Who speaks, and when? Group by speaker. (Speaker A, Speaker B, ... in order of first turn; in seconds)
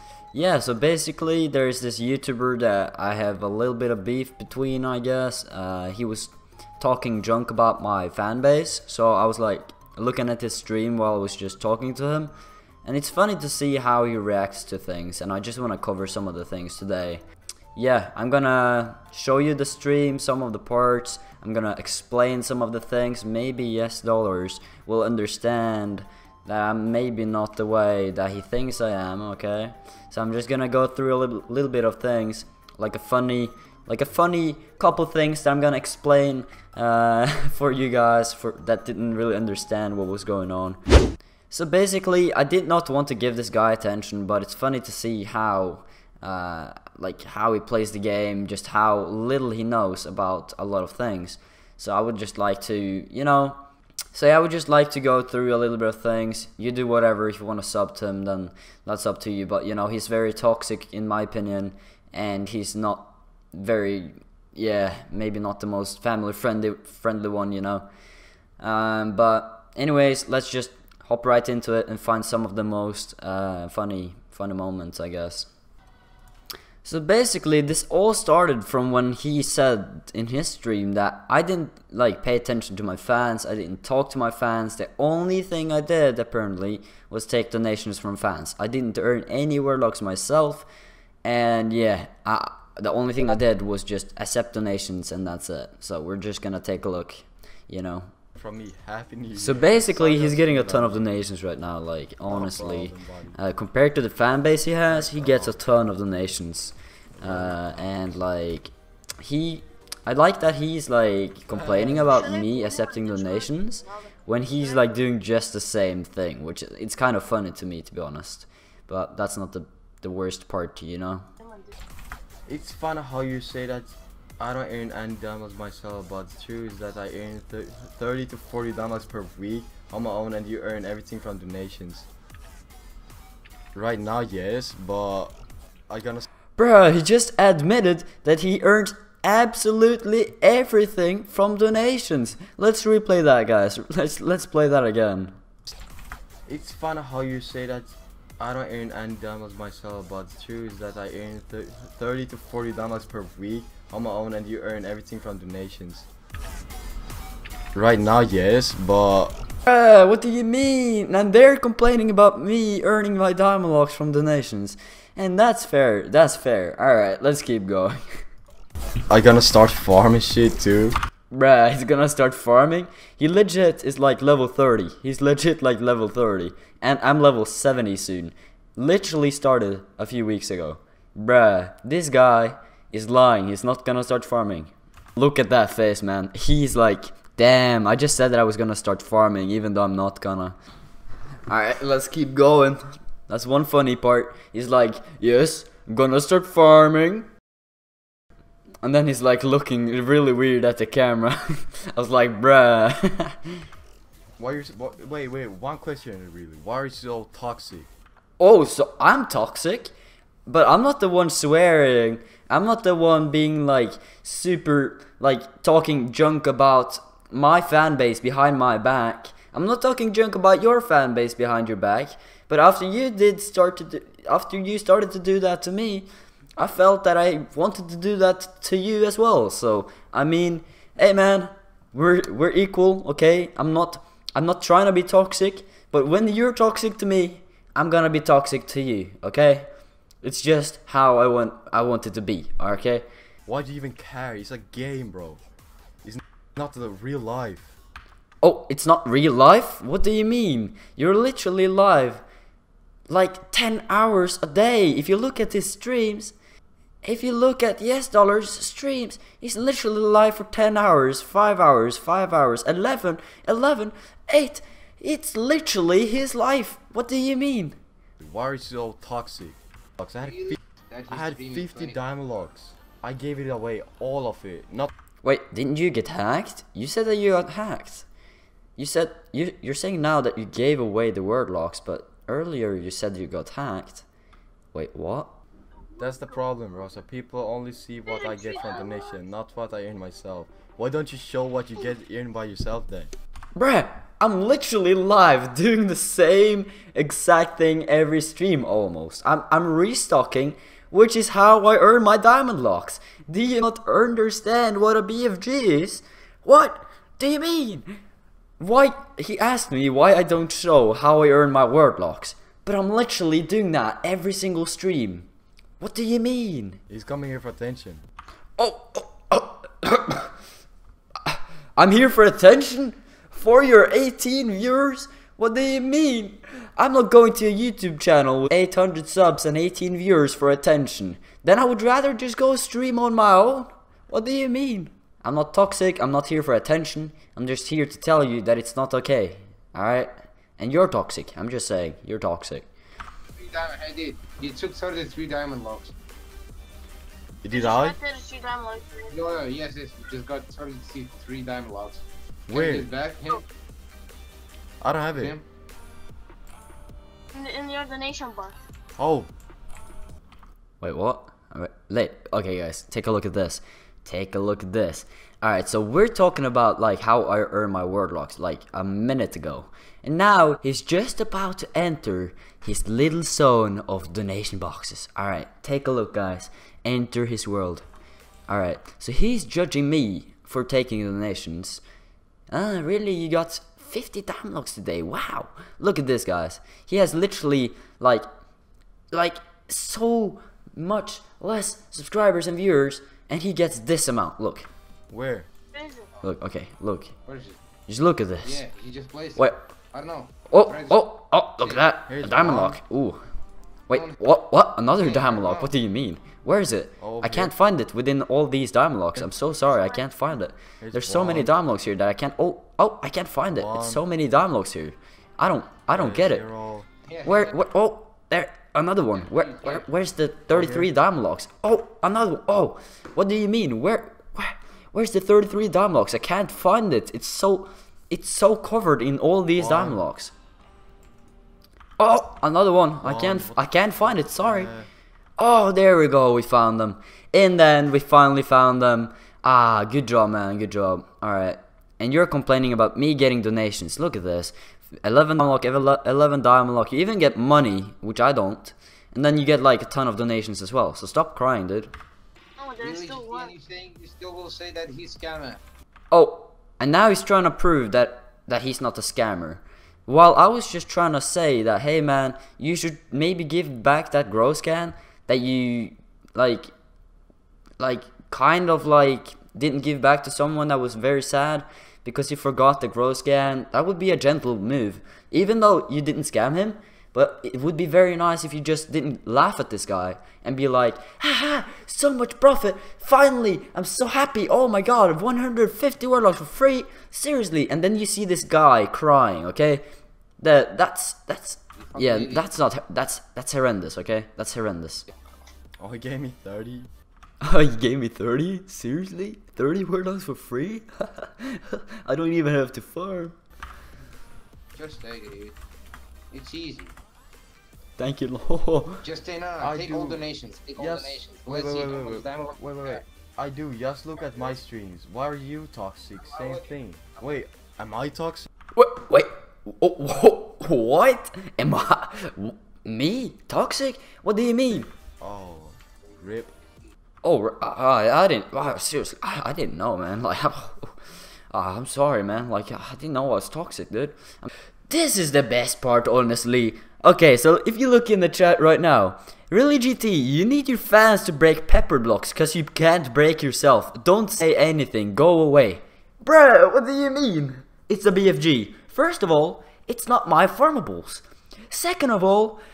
Speaker A: 0.3-12.3, 12.8-17.2, 17.7-40.8, 41.5-53.6, 54.1-67.9, 68.6-75.5, 76.8-90.7, 91.2-98.1, 99.4-121.2, 136.6-145.4, 159.7-168.0, 171.3-190.6, 191.5-197.3, 198.8-203.6, 208.4-209.9, 210.4-239.7, 240.2-243.1, 248.4-252.2, 253.1-256.3, 257.0-267.8, 275.2-278.1, 278.8-284.1, 284.7-285.4, 293.6-307.9, 308.6-315.3, 315.8-316.8, 318.6-320.3, 321.2-342.7, 360.8-377.8, 378.5-381.8, 382.5-388.2, 389.1-394.7, 396.2-397.1, 397.9-398.6, 399.4-399.6, 400.5-403.2, 403.9-416.4, 417.2-430.3, 432.0-434.7, 435.4-451.9, 456.1-466.7, 467.8-489.8, 490.4-495.1, 497.4-503.4, 508.0-509.0, 518.8-524.9, 527.2-531.0, 531.5-552.6
Speaker B: 98.3-101.1, 102.2-103.4, 104.9-105.6, 107.2-107.7, 111.5-112.2, 122.5-132.1, 133.7-135.3, 135.9-136.2, 146.5-156.1, 157.7-159.3, 169.1-171.0, 204.4-207.9, 243.4-245.4, 246.0-247.7, 268.2-270.6, 271.1-274.9, 286.0-293.1, 316.9-318.0, 347.4-348.0, 352.5-352.9, 354.8-355.4, 359.0-359.3, 395.1-395.5, 402.1-402.8, 407.0-407.5, 410.8-411.5, 413.5-414.0, 415.9-416.9, 420.5-420.9, 429.6-430.0, 433.0-434.9, 495.8-496.9, 509.6-510.2, 510.8-518.5, 525.2-526.5
Speaker C: 112.2-114.1, 121.4-121.8, 288.3-288.9, 347.5-349.2, 357.3-358.6, 395.7-396.1, 452.6-453.5
Speaker D: 270.2-272.0, 343.4-345.9, 349.1-353.4, 355.1-355.4, 397.2-397.6, 398.4-401.1, 401.6-401.8, 403.9-404.2, 405.0-405.7, 417.1-417.6, 419.1-419.9, 452.8-455.6, 491.8-492.5, 504.7-505.6, 506.3-507.0, 509.0-513.0, 516.2-517.2